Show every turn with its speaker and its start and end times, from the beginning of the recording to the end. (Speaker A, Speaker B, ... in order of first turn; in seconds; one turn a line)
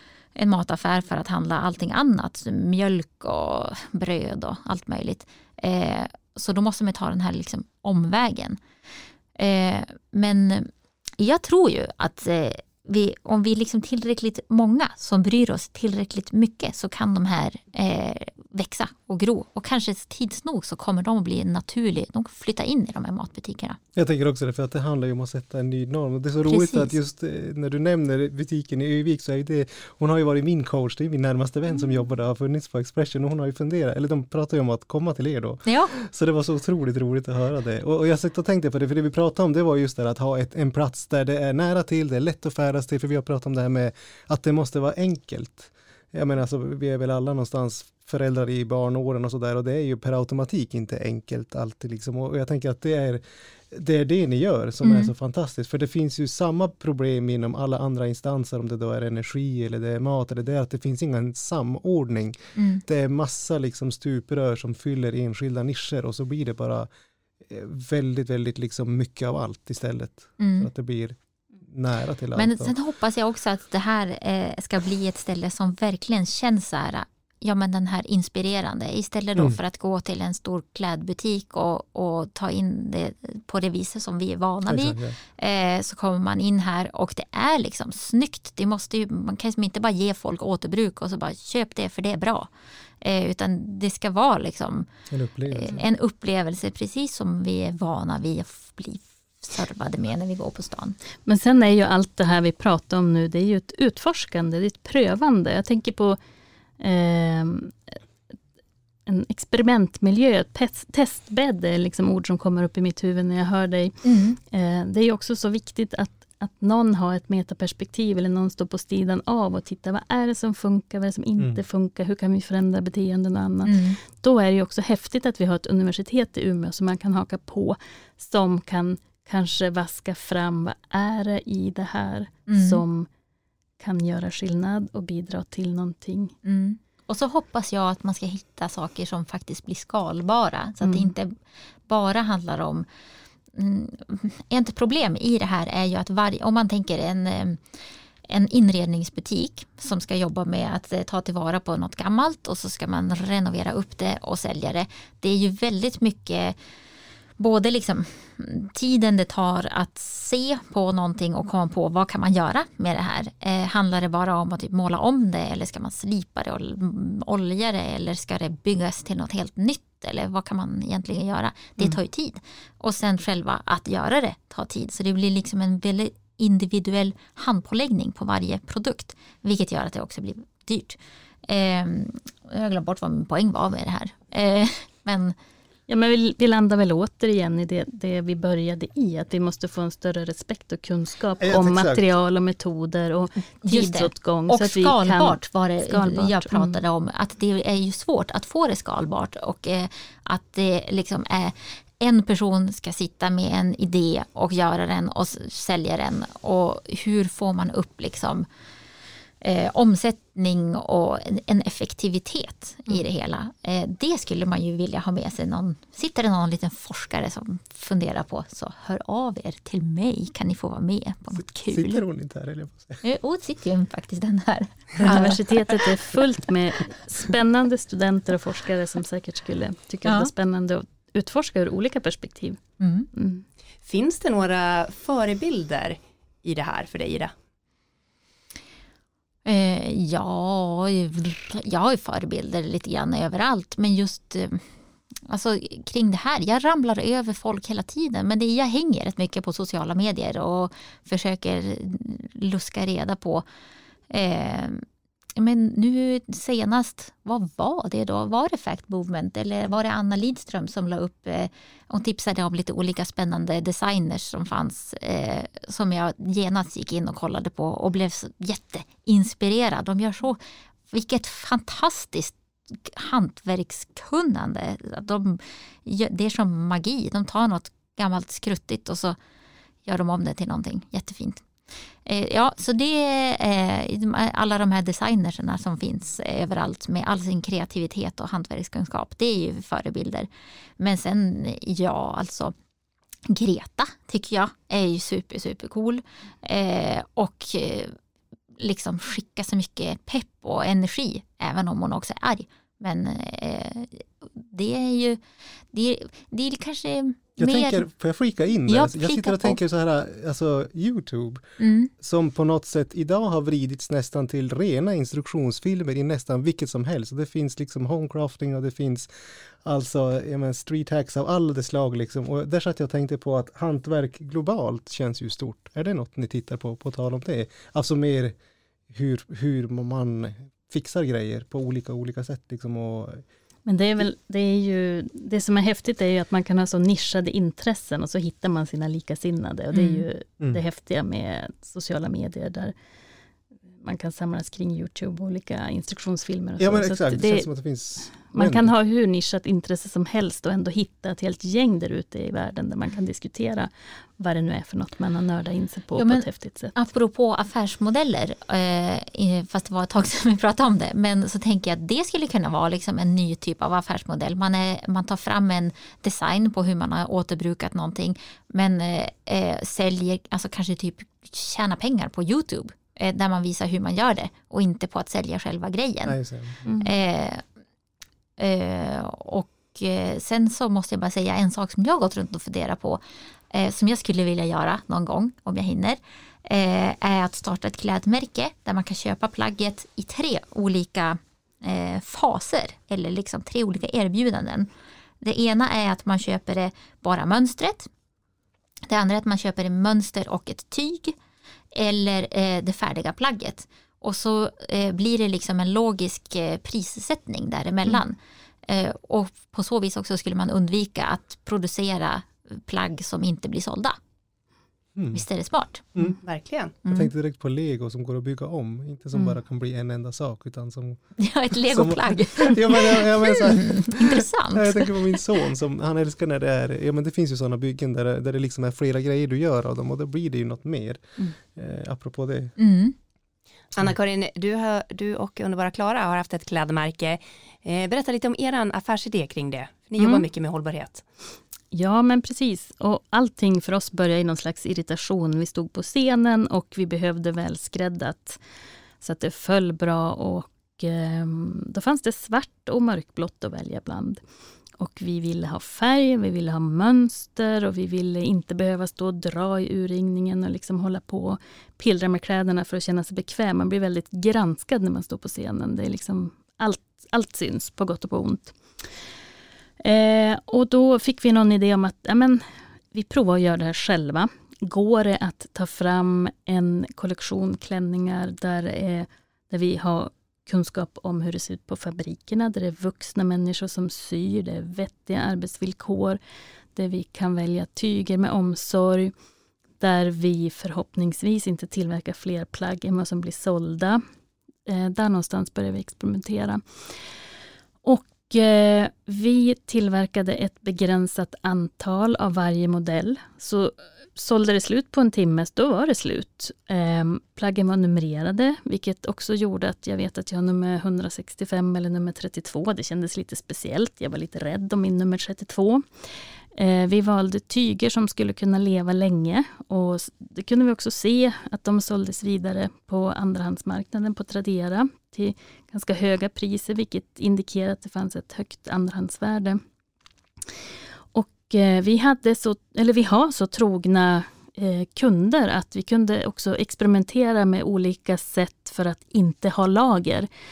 Speaker A: 0.3-8.6
Speaker A: 9.3-23.8
Speaker B: 23.9-66.9
Speaker A: 26.5-26.9
Speaker A: 35.6-35.9
Speaker A: 54.8-55.1
Speaker A: 62.5-62.8
Speaker B: 67.5-72.7
Speaker A: 70.4-70.7
Speaker A: 72.3-92.5
Speaker B: 84.7-85.2
Speaker A: 93.0-94.9
Speaker B: 95.1-95.8
Speaker A: 95.5-101.0
Speaker C: 101.2-106.2
Speaker C: 106.8-107.9
Speaker C: 109.0-133.1
Speaker A: 114.0-114.4
Speaker A: 123.6-124.0
Speaker A: 132.5-132.8
Speaker C: 133.8-136.3
Speaker A: 136.4-141.4
Speaker C: 140.8-141.1
Speaker A: 141.9-142.8
Speaker A: 143.5-147.6
Speaker A: 148.2-156.6
Speaker A: 157.4-185.3
Speaker C: 185.9-196.8
Speaker B: 191.4-192.0
Speaker A: 193.6-208.5
Speaker A: 209.4-222.0
Speaker B: 221.3-223.0
Speaker A: 223.0-225.8
Speaker C: 225.0-232.6
Speaker A: 230.0-230.3
Speaker A: 232.8-233.1
Speaker C: 233.1-233.4
Speaker D: 233.8-237.3
Speaker A: 239.4-244.7
Speaker A: 245.2-253.4
Speaker A: 254.1-254.8
Speaker A: 255.3-279.2
Speaker A: 279.8-281.4
Speaker A: 282.1-290.3
Speaker A: 290.8-292.5
Speaker A: 293.3-297.9
Speaker A: 298.6-307.9
Speaker B: 307.4-311.4
Speaker A: 308.7-309.6
Speaker A: 311.6-311.9
Speaker B: 312.0-319.1
Speaker B: 319.6-328.3
Speaker B: 328.9-333.2
Speaker C: 333.6-342.7
Speaker A: 339.7-340.1
Speaker C: 343.8-347.5
Speaker B: 346.6-348.7
Speaker C: 348.1-356.7
Speaker A: 355.9-376.2
Speaker B: 376.1-376.6
Speaker C: 376.6-376.9
Speaker A: 376.8-377.4
Speaker A: 378.4-394.7
Speaker A: 395.2-397.9
Speaker A: 398.9-401.1
Speaker A: 401.7-414.0
Speaker B: 414.9-415.2
Speaker A: 415.1-416.1
Speaker D: 416.2-416.7
Speaker A: 416.8-417.1
Speaker B: 416.9-421.0
Speaker A: 421.2-425.2
Speaker B: 421.7-431.0
Speaker B: 431.5-432.5
Speaker A: 432.6-432.9
Speaker D: 433.8-441.0
Speaker C: 440.0-440.2
Speaker C: 441.7-448.4
Speaker C: 449.0-454.2
Speaker C: 454.8-468.6
Speaker C: 469.8-486.2
Speaker C: 486.7-489.1
Speaker C: 489.8-494.0
Speaker C: 494.6-496.8
Speaker C: 497.8-515.9
Speaker C: 516.5-529.6
Speaker C: 531.1-540.3